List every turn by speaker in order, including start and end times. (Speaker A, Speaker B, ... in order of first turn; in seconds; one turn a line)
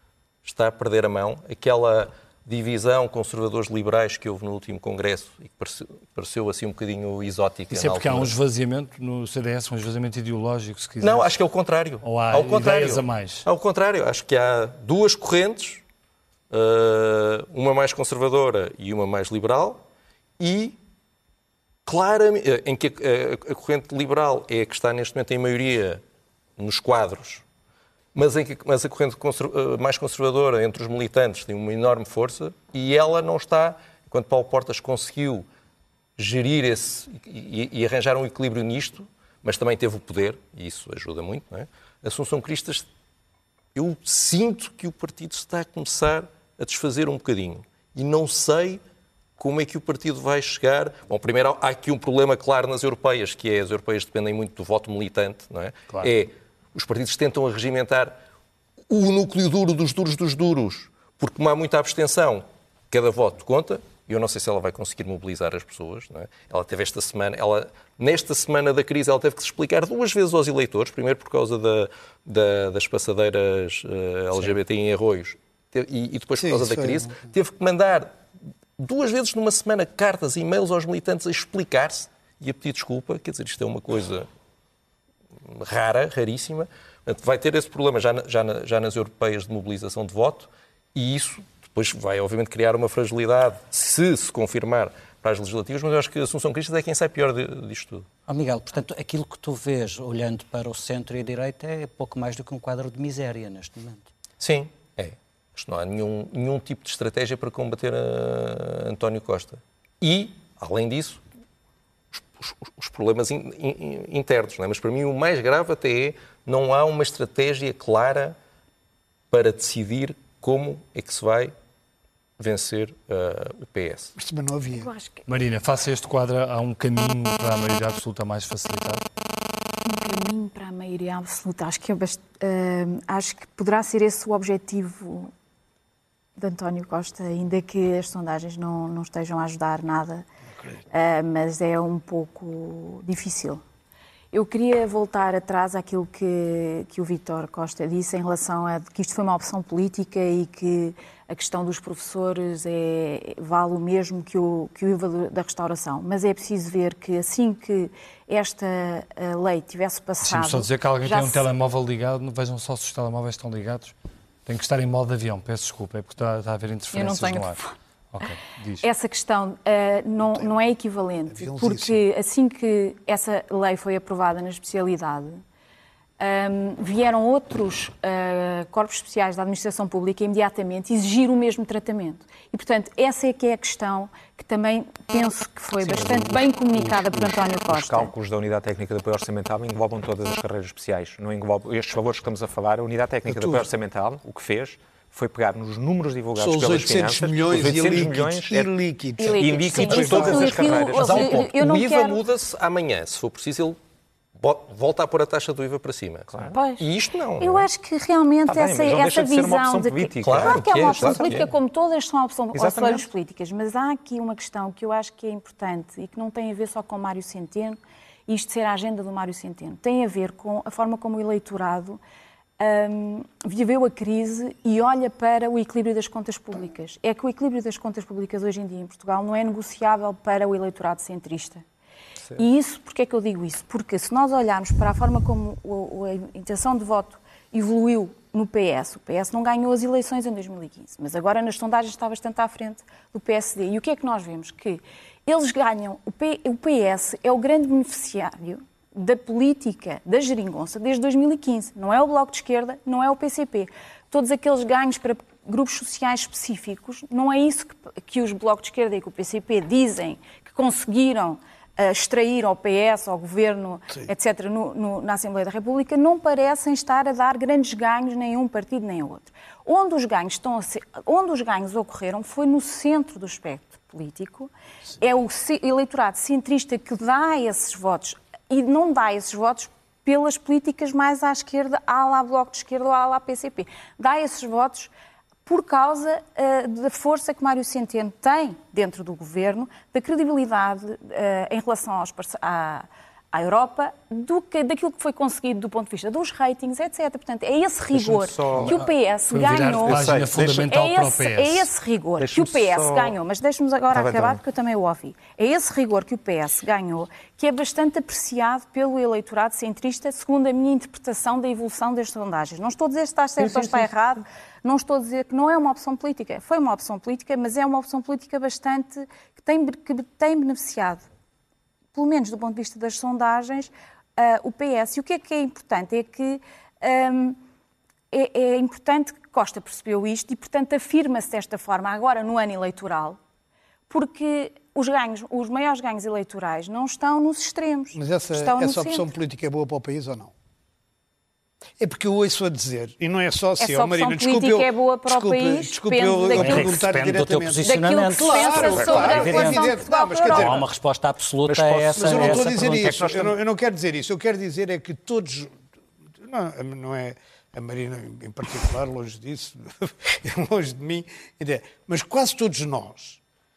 Speaker A: 0.4-8.3
Speaker B: 7.7-11.3
Speaker A: 11.0-15.8
Speaker B: 12.0-13.5
Speaker A: 16.5-19.8
Speaker A: 20.4-20.8
Speaker A: 21.9-26.0
Speaker A: 26.6-27.4
Speaker A: 28.1-35.5
Speaker A: 36.2-42.9
Speaker A: 43.8-48.8
Speaker A: 49.4-58.2
Speaker A: 58.9-78.1
Speaker C: 76.4-77.2
Speaker A: 78.8-84.3
Speaker A: 85.4-98.1
Speaker D: 98.3-104.1
Speaker A: 104.4-111.2
Speaker A: 112.2-118.4
Speaker A: 119.3-121.5
Speaker A: 122.4-124.2
Speaker C: 124.2-124.9
Speaker E: 124.7-125.2
Speaker B: 125.3-129.0
Speaker E: 129.8-135.3
Speaker E: 136.4-140.3
Speaker E: 140.9-143.6
Speaker E: 144.3-161.5
Speaker B: 160.2-163.9
Speaker B: 164.5-167.6
Speaker E: 166.9-167.7
Speaker B: 168.1-168.8
Speaker E: 168.8-175.4
Speaker C: 171.3-172.0
Speaker E: 176.2-188.1
Speaker F: 185.8-198.7
Speaker C: 193.3-193.7
Speaker C: 196.4-200.7
Speaker E: 199.2-202.2
Speaker F: 199.3-201.4
Speaker A: 199.9-203.8
Speaker A: 204.4-207.7
Speaker E: 206.5-206.8
Speaker E: 207.4-222.0
Speaker F: 208.5-211.3
Speaker A: 210.2-211.5
Speaker F: 212.5-213.1
Speaker E: 222.6-231.6
Speaker E: 232.4-284.9
Speaker E: 285.5-321.1
Speaker F: 297.9-298.8
Speaker B: 298.6-301.7
Speaker F: 299.8-300.7
Speaker F: 302.2-303.1
Speaker F: 303.9-304.4
Speaker F: 313.4-313.9
Speaker E: 321.9-327.4
Speaker E: 328.1-333.2
Speaker E: 333.9-339.1
Speaker C: 337.9-340.3
Speaker C: 341.8-350.7
Speaker E: 343.6-346.8
Speaker D: 346.3-353.0
Speaker E: 347.6-350.6
Speaker F: 351.4-353.4
Speaker C: 351.9-355.6
Speaker C: 356.2-363.2